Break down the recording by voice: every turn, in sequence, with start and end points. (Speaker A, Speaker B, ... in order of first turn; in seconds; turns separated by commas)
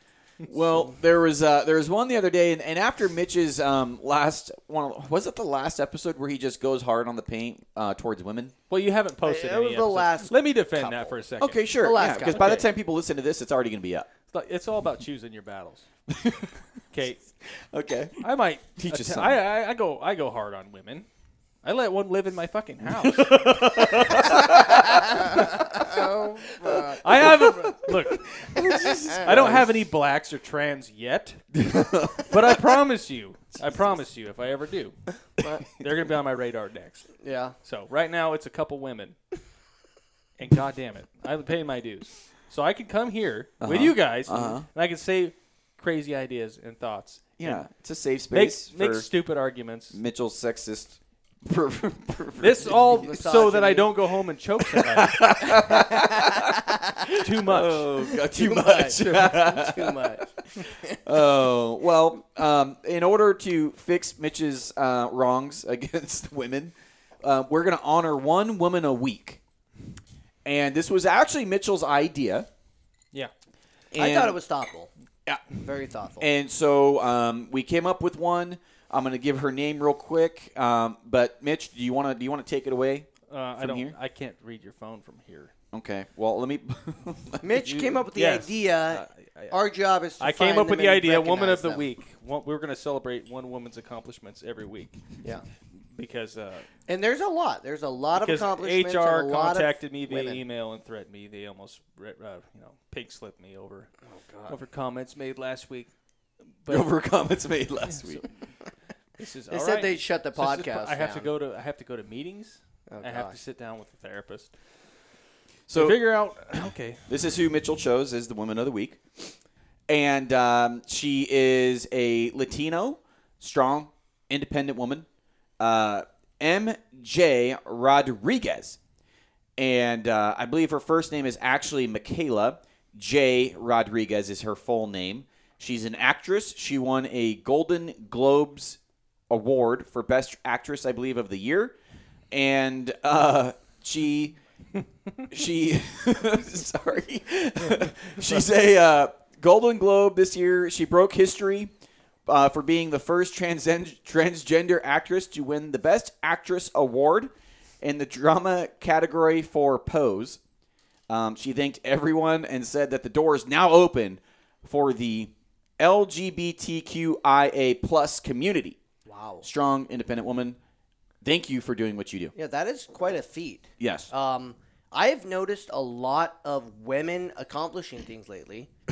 Speaker A: 0.5-8.6, Speaker B: 8.7-12.7, Speaker C: 9.2-11.2, Speaker A: 11.4-14.1, Speaker C: 11.8-12.6, Speaker B: 14.3-15.9, Speaker A: 16.1-16.5, Speaker B: 16.9-17.2, Speaker A: 17.7-19.4, Speaker B: 18.2-21.1, Speaker B: 21.6-25.6, Speaker A: 23.0-29.7, Speaker C: 24.4-27.0, Speaker B: 27.0-31.4, Speaker C: 29.1-29.5, Speaker A: 31.6-32.5, Speaker B: 32.3-35.0, Speaker C: 35.4-35.6, Speaker B: 35.7-37.1, Speaker C: 37.2-37.5, Speaker B: 37.6-39.2, Speaker B: 40.4-47.6, Speaker A: 43.6-44.7, Speaker A: 47.4-49.1, Speaker B: 48.3-50.0, Speaker A: 49.9-53.0, Speaker B: 52.4-55.4, Speaker C: 52.9-54.0, Speaker A: 54.6-60.3, Speaker C: 55.8-56.8, Speaker B: 57.1-57.9, Speaker C: 58.1-61.0, Speaker A: 61.0-69.4, Speaker A: 70.5-72.5, Speaker C: 73.9-74.9, Speaker A: 74.0-74.4, Speaker C: 75.6-76.3, Speaker A: 76.2-84.0, Speaker B: 83.3-85.5, Speaker A: 85.7-87.8, Speaker C: 87.4-91.8, Speaker B: 87.7-89.6, Speaker B: 90.2-95.0, Speaker B: 96.0-96.7, Speaker C: 96.9-100.4, Speaker B: 98.2-103.9, Speaker C: 104.1-104.6, Speaker B: 104.5-105.9, Speaker B: 106.7-106.9, Speaker A: 106.7-108.2, Speaker B: 109.2-114.5, Speaker C: 109.5-111.3, Speaker C: 112.9-113.4, Speaker A: 115.7-116.1, Speaker B: 115.7-117.0, Speaker A: 117.1-119.3, Speaker A: 119.9-125.1, Speaker A: 125.6-128.8, Speaker A: 129.6-138.8, Speaker A: 139.3-141.8, Speaker A: 142.3-144.4, Speaker A: 145.3-151.7, Speaker A: 152.3-160.4, Speaker A: 161.1-168.8, Speaker C: 169.1-169.4, Speaker A: 169.4-170.6, Speaker A: 171.2-172.3, Speaker C: 172.3-178.7, Speaker A: 173.8-174.1